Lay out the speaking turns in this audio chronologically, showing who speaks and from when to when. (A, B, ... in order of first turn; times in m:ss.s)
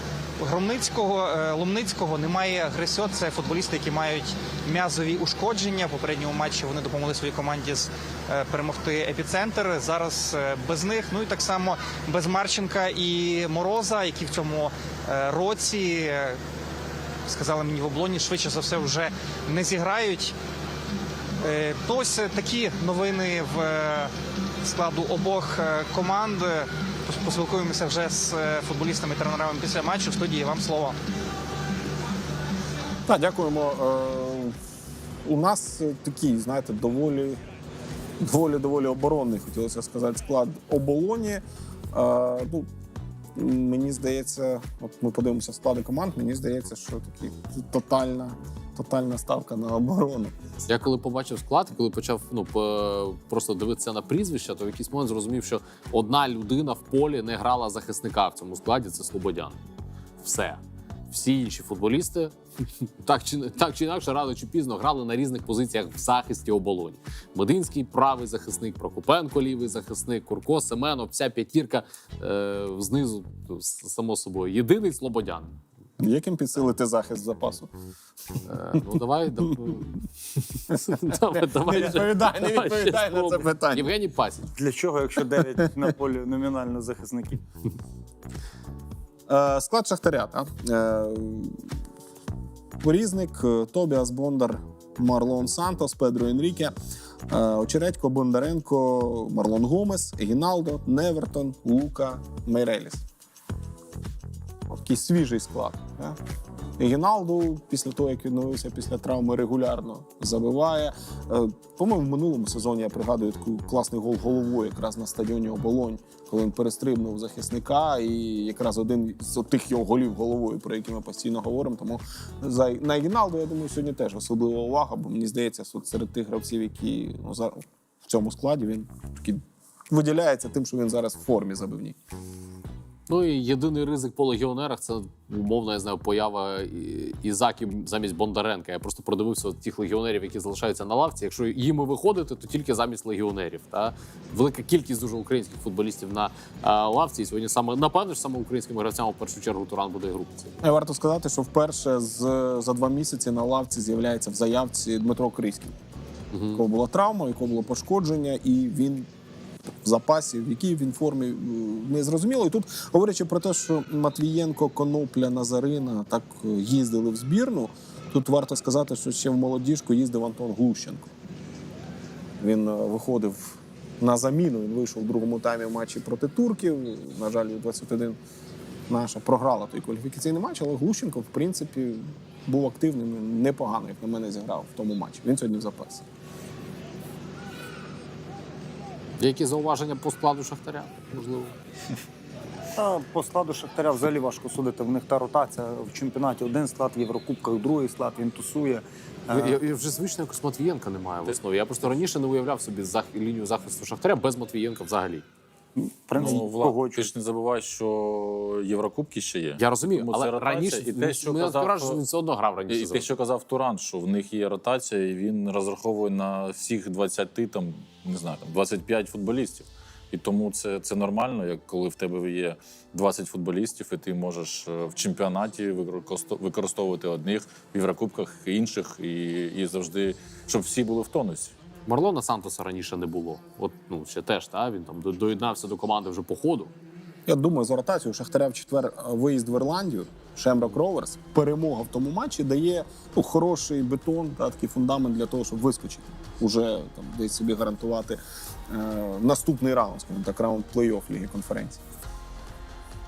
0:00.4-0:16.4 A
0:17.3-0:20.4 A
0:21.4-0:24.1 A
0:24.6-0:31.0 A
0:33.1-0:34.6 B
0:35.2-0:37.4 B
0:38.2-0:42.7 B
0:43.4-0:50.3 B
0:50.7-0:59.6 C
1:00.2-1:15.6 C
1:16.0-1:17.7 B
1:18.5-1:24.5 C
1:21.1-1:23.9 B
1:24.5-1:27.4 D
1:29.3-1:31.6 B
1:32.8-1:36.7 B
1:37.3-1:43.0 B
1:44.7-1:46.2 B
1:46.8-2:12.0 B
2:13.1-2:30.6 C
2:30.6-2:35.8 B
2:36.3-2:36.7 C
2:36.5-2:39.1 B
2:39.8-2:51.1 B
2:52.4-2:58.2 B
2:58.9-3:06.0 B
3:09.2-3:11.6 C
3:12.8-3:19.6 D
3:19.3-3:25.3 C
3:25.8-3:27.1 D
3:26.2-3:32.0 E
3:29.6-3:33.1 C
3:32.7-3:51.6 E
3:51.9-3:56.7 C
3:57.3-4:11.8 B